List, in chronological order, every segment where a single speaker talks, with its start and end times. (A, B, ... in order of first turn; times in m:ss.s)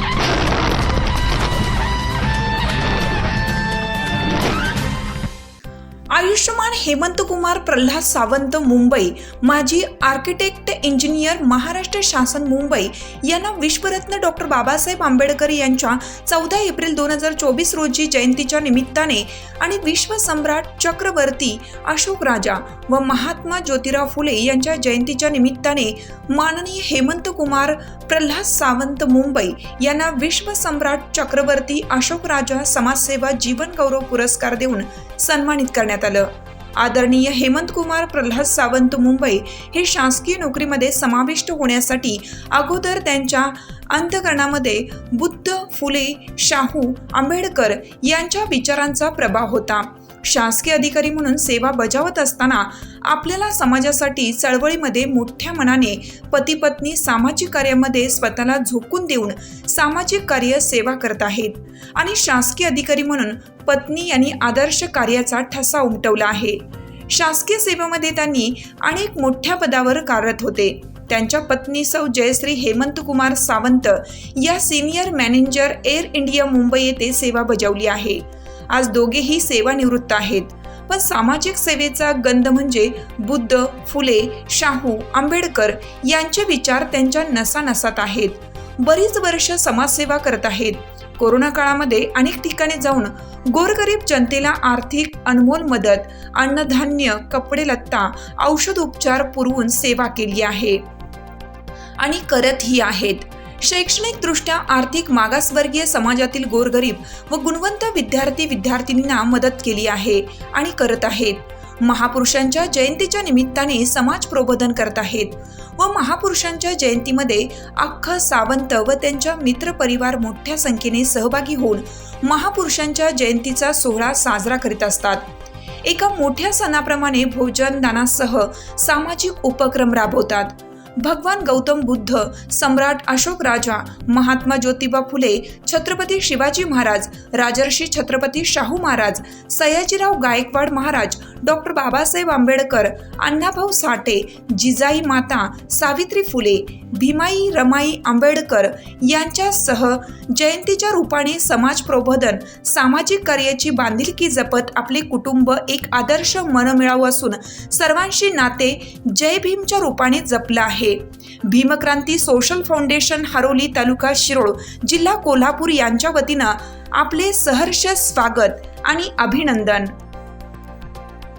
0:06.1-1:40.8 A
1:42.0-2:05.3 A
2:05.8-2:49.9 A